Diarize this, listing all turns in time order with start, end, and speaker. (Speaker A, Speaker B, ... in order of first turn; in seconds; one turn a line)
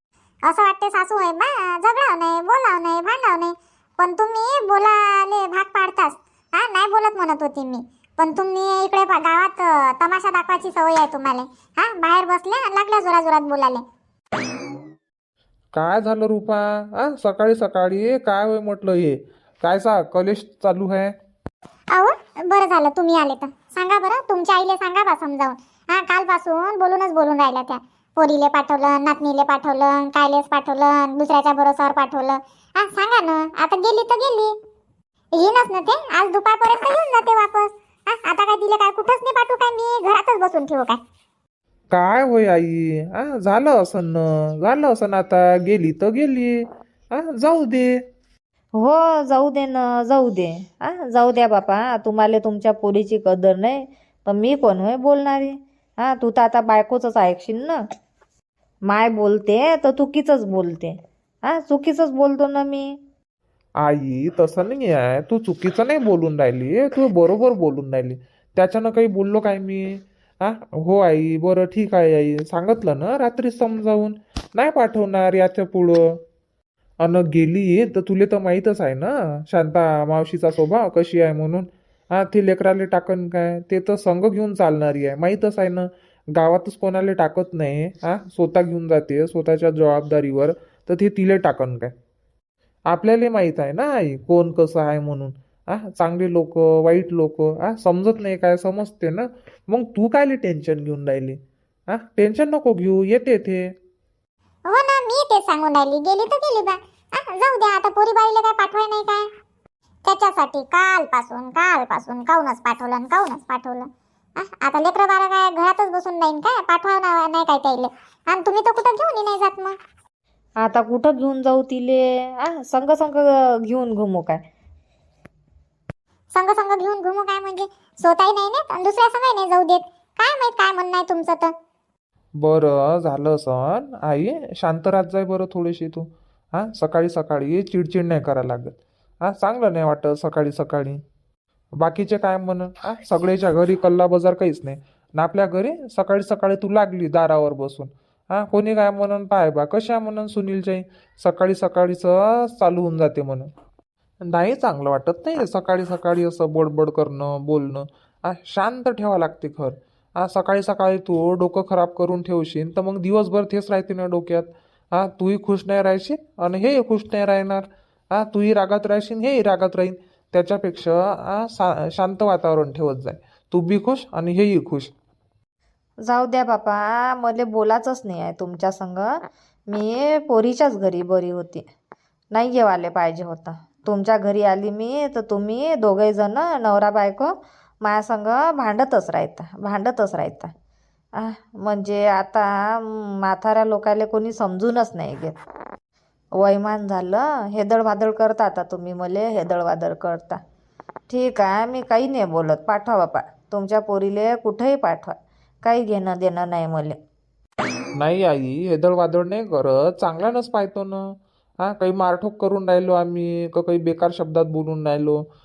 Speaker A: 0.5-13.8
Speaker B: 15.7-21.1
Speaker A: 21.9-34.5
Speaker A: 35.4-41.0
Speaker B: 41.9-47.9
Speaker C: 48.8-57.8
Speaker C: 58.9-63.0
Speaker B: 63.8-76.1
Speaker B: 77.0-91.9
Speaker B: 92.9-101.4
Speaker B: 101.9-103.7
Speaker A: 104.7-109.3
Speaker A: 110.0-113.9
Speaker A: 114.4-119.8
Speaker C: 120.6-124.4
Speaker A: 126.3-131.5
Speaker B: 132.4-141.0
Speaker B: 141.8-153.5
Speaker B: 154.3-167.6
Speaker B: 168.2-174.9
Speaker C: 176.1-179.2
Speaker C: 179.7-181.7
Speaker C: 182.3-190.5
Speaker C: 191.2-195.4
Speaker C: 196.4-200.4
Speaker C: 201.1-207.0
Speaker B: 208.0-215.2